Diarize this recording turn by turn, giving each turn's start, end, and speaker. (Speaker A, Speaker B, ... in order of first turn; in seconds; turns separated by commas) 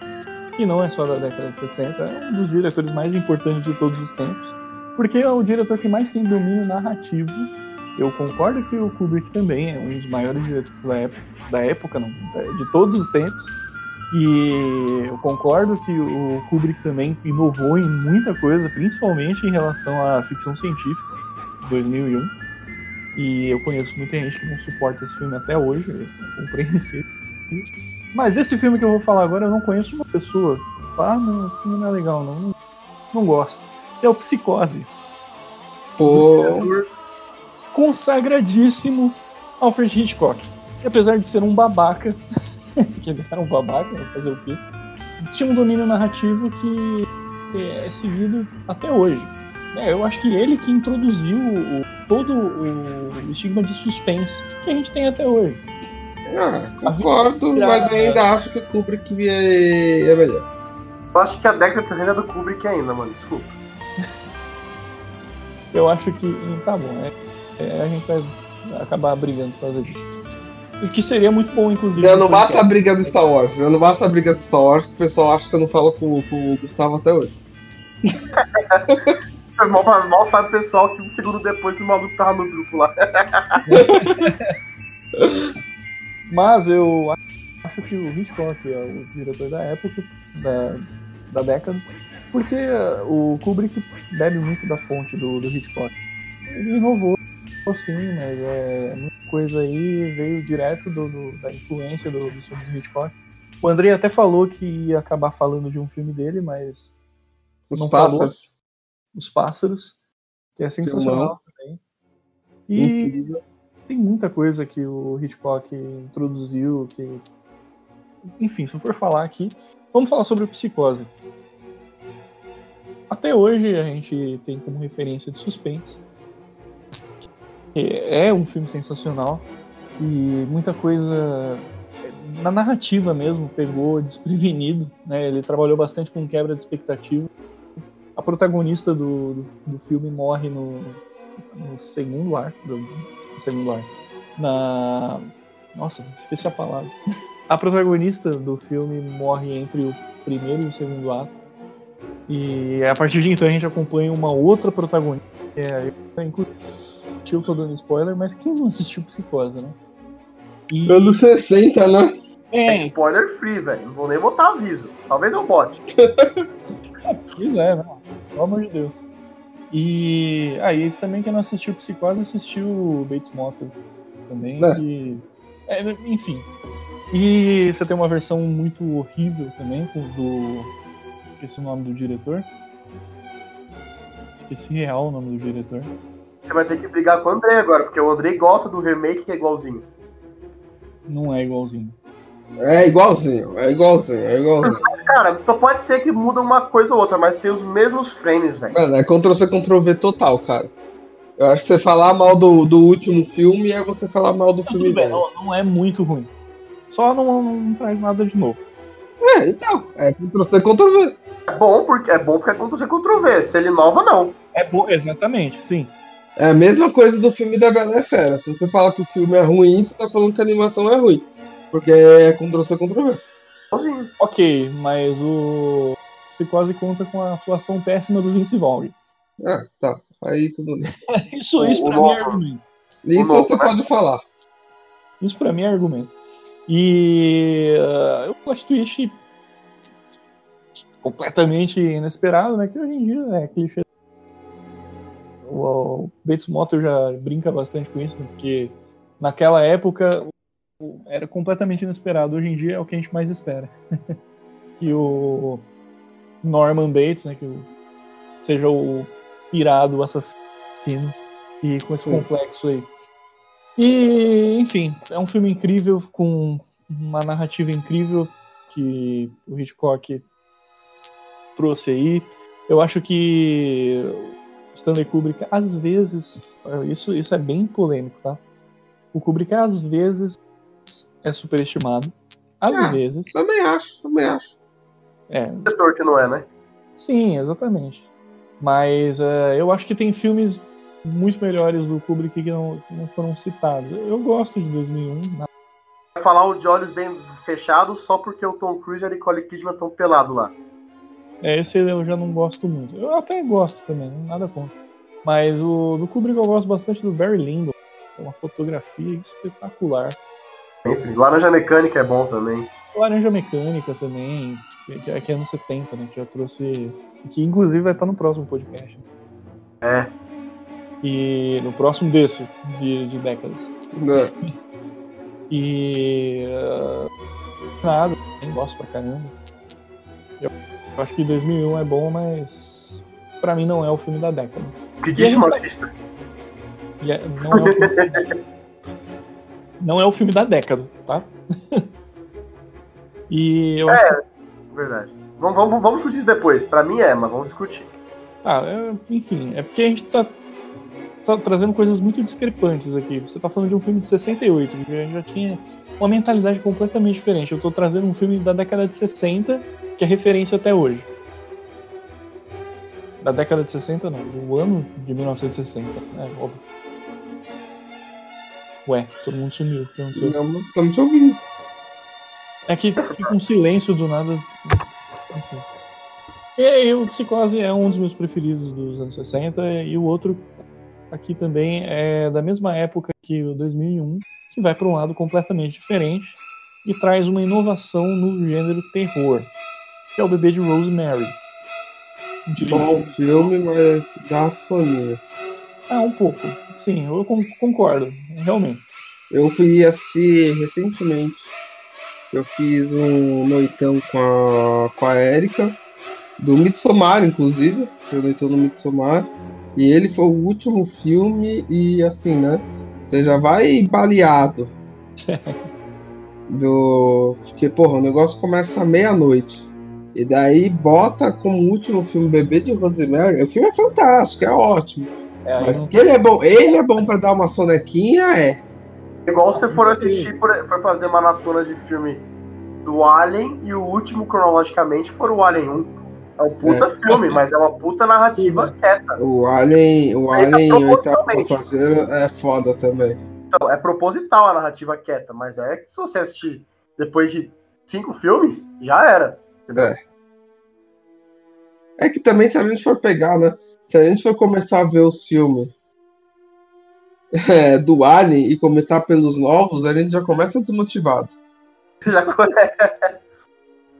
Speaker A: 0.6-13.5, Speaker A: 14.1-21.1, Speaker A: 21.6-22.3, Speaker A: 23.1-32.5, Speaker A: 33.1-34.9, Speaker B: 36.0-36.7, Speaker C: 36.0-36.9, Speaker A: 37.7-42.2, Speaker A: 42.8-44.6, Speaker A: 45.2-55.6, Speaker B: 56.3-60.5, Speaker A: 56.9-58.2, Speaker C: 61.1-63.5, Speaker A: 65.7-70.0, Speaker A: 70.8-73.1, Speaker B: 72.0-77.3, Speaker C: 78.3-78.9, Speaker C: 79.6-83.6, Speaker A: 83.7-84.5, Speaker B: 83.7-84.3, Speaker B: 85.2-85.5, Speaker A: 86.3-96.0, Speaker A: 96.5-106.9, Speaker B: 107.7-108.5, Speaker A: 107.7-108.3, Speaker A: 109.1-110.0, Speaker A: 110.6-111.8, Speaker B: 110.8-111.4, Speaker A: 112.7-113.2, Speaker B: 112.8-113.4, Speaker A: 113.9-117.2, Speaker A: 118.4-121.1, Speaker A: 123.1-126.0, Speaker A: 127.7-129.5, Speaker A: 130.0-137.3, Speaker A: 138.2-141.0, Speaker A: 141.5-146.9, Speaker A: 147.5-151.4, Speaker A: 152.3-156.5, Speaker A: 157.2-159.8, Speaker A: 160.7-161.2, Speaker B: 160.9-162.1, Speaker A: 162.5-162.9, Speaker C: 162.7-165.8, Speaker B: 166.0-166.4, Speaker A: 167.1-169.0, Speaker A: 169.7-176.5, Speaker A: 177.1-180.7, Speaker A: 181.4-182.5, Speaker A: 184.4-185.9, Speaker C: 186.5-189.9, Speaker A: 191.1-191.9, Speaker B: 192.6-194.8, Speaker C: 194.6-198.8, Speaker B: 198.7-200.7, Speaker B: 201.4-205.2, Speaker A: 204.7-206.3, Speaker A: 206.9-208.6, Speaker B: 209.2-211.2, Speaker C: 211.5-214.3, Speaker A: 214.6-215.9, Speaker B: 216.4-223.2, Speaker C: 223.7-224.1, Speaker A: 224.2-228.9, Speaker B: 229.4-230.9, Speaker A: 231.1-232.6, Speaker B: 231.6-232.1, Speaker C: 231.7-232.4, Speaker B: 233.1-234.2, Speaker C: 233.1-233.7, Speaker A: 235.2-236.1, Speaker A: 236.7-239.2, Speaker A: 240.8-243.8, Speaker A: 245.4-254.1, Speaker A: 254.8-255.6, Speaker A: 256.4-257.7, Speaker A: 258.4-262.9, Speaker A: 263.8-270.2, Speaker A: 271.6-278.4, Speaker A: 279.1-280.4, Speaker A: 281.0-283.3, Speaker B: 282.6-284.5, Speaker A: 285.3-285.7, Speaker C: 285.6-286.5, Speaker A: 287.0-288.1, Speaker A: 288.6-295.5, Speaker C: 296.1-300.6, Speaker A: 301.4-310.2, Speaker C: 310.8-312.7, Speaker A: 312.9-319.0, Speaker C: 319.8-320.1, Speaker A: 321.0-323.7, Speaker B: 323.9-324.3, Speaker A: 325.5-327.1, Speaker A: 327.8-329.3, Speaker A: 330.4-335.6, Speaker C: 335.0-335.9, Speaker A: 337.0-338.3, Speaker C: 337.5-338.3, Speaker A: 339.8-341.9, Speaker A: 343.3-344.1, Speaker C: 343.9-344.2, Speaker C: 344.7-347.9, Speaker A: 348.4-350.3, Speaker A: 351.2-361.1, Speaker A: 363.2-366.6, Speaker A: 368.9-370.4, Speaker B: 370.1-371.4, Speaker A: 372.7-374.8, Speaker A: 375.3-375.6, Speaker A: 376.6-380.5, Speaker A: 381.1-389.5, Speaker A: 390.1-391.4, Speaker A: 392.5-393.0, Speaker B: 392.7-395.2, Speaker A: 395.9-398.8, Speaker B: 399.3-401.5, Speaker B: 402.3-405.8, Speaker B: 406.4-414.7, Speaker A: 415.3-415.6, Speaker B: 416.5-428.6, Speaker A: 425.4-425.9, Speaker C: 429.3-432.2, Speaker B: 429.6-430.3, Speaker C: 432.8-439.2, Speaker B: 436.6-436.9, Speaker A: 437.1-437.4, Speaker A: 438.4-438.7, Speaker B: 439.2-443.2, Speaker C: 440.3-441.6, Speaker C: 443.5-449.9, Speaker B: 452.0-455.7, Speaker B: 457.3-461.3, Speaker C: 462.0-463.1